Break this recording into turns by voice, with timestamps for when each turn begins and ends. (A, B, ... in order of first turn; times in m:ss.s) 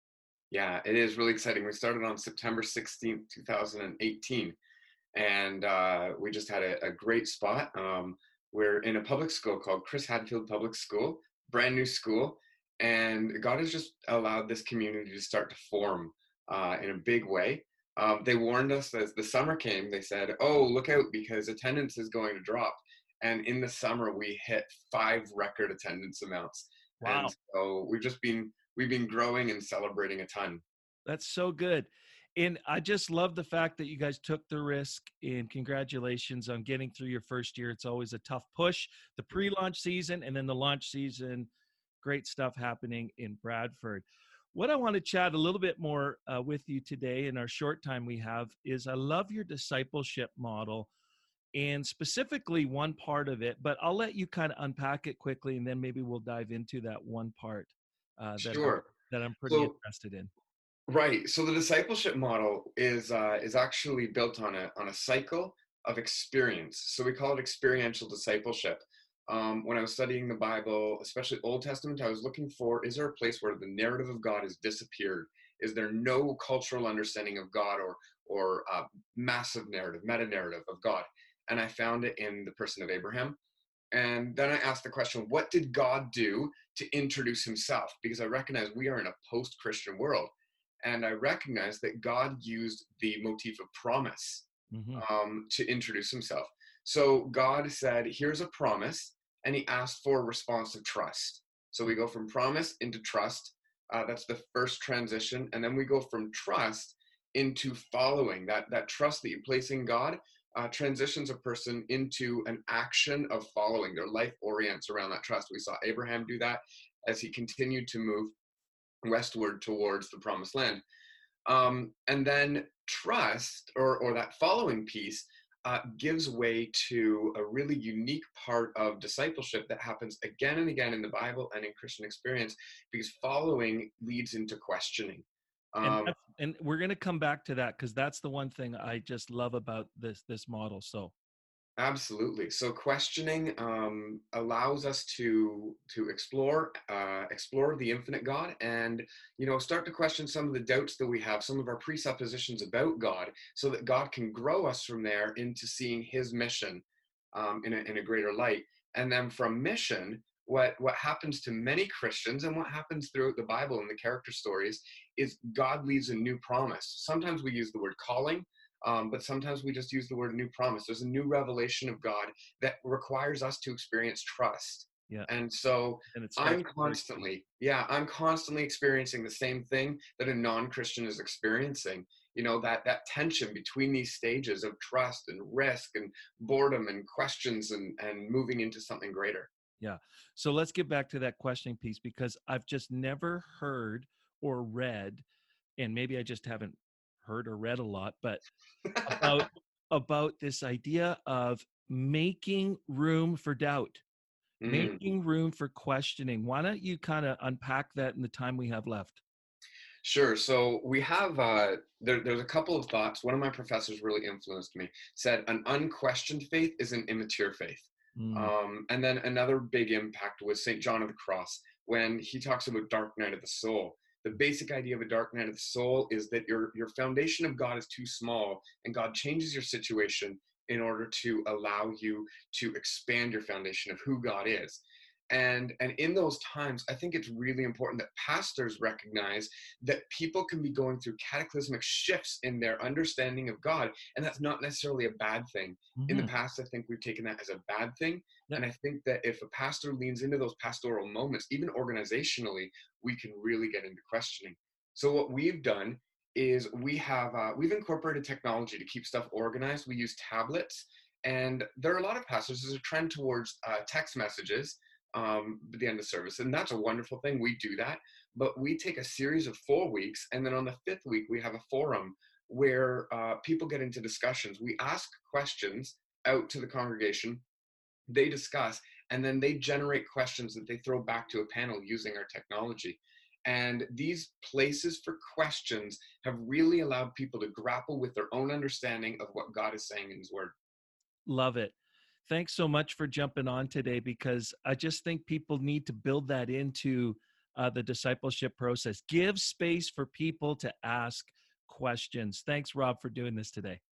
0:00.5-0:04.6 A
0:05.2-0:30.6 A
0:27.0-0:27.3 B
0:31.1-0:41.5 B
0:42.0-0:50.9 B
0:51.6-1:00.3 B
0:58.4-0:58.9 A
0:59.5-0:59.8 A
1:00.9-1:23.4 A
1:23.9-1:30.3 A
1:30.8-1:58.3 A
1:34.7-1:35.0 B
1:59.0-2:00.8 A
2:01.5-2:16.2 A
2:15.8-2:21.1 B
2:21.8-3:09.5 A
2:56.1-2:57.2 B
3:09.8-3:15.2 B
3:15.8-3:18.4 B
3:18.9-3:19.2 A
3:19.0-3:24.0 B
3:24.6-3:25.0 A
3:24.6-3:29.2 B
3:30.0-4:37.4 A
3:38.2-3:38.5 B
4:06.0-4:06.3 B
4:38.1-4:50.6 A
4:51.3-4:51.8 B
4:52.3-5:03.8 B